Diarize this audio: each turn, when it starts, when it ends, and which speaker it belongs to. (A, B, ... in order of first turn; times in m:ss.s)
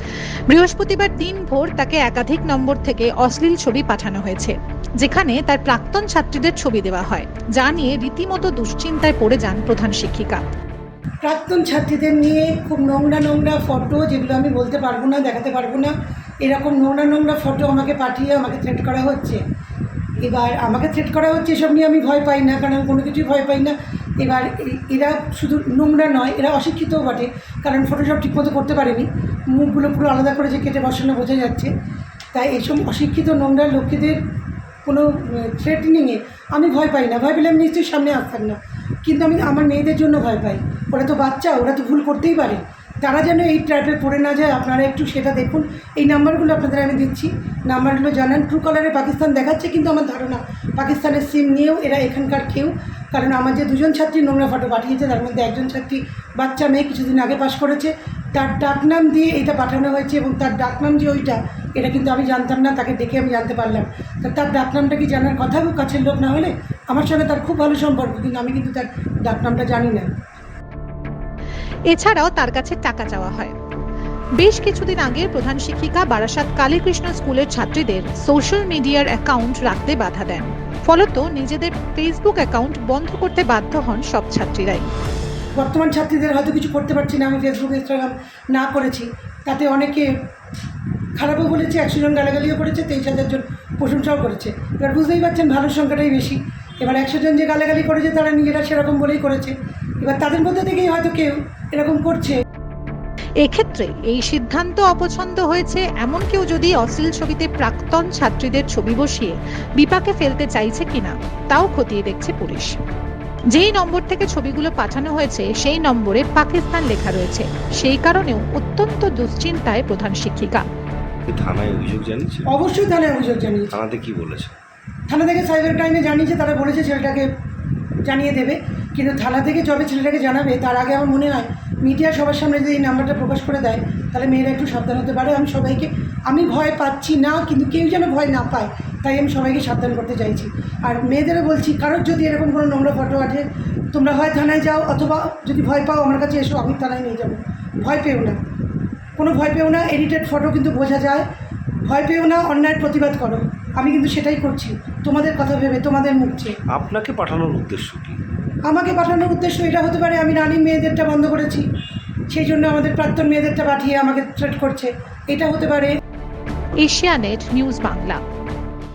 0:00.5-0:10.4 A
0:11.2-0:15.9 B
0:16.4-0:19.4 B
0:20.2-0:31.7 B
0:32.3-0:34.2 B
0:34.8-1:10.1 B
1:11.9-1:13.5 A
1:14.4-1:24.9 A
1:25.6-1:30.1 B
1:31.2-1:42.4 B
1:43.4-1:52.8 A
1:53.5-2:00.7 A
2:01.3-2:02.5 C
2:02.5-2:03.7 B
2:03.7-2:04.5 C
2:05.1-2:07.3 B
2:08.1-2:28.4 B
2:29.2-2:31.3 B
2:31.9-2:36.5 B
2:36.7-2:38.2 C
2:38.7-2:41.6 B
2:42.3-2:46.0 B
2:46.8-2:48.2 A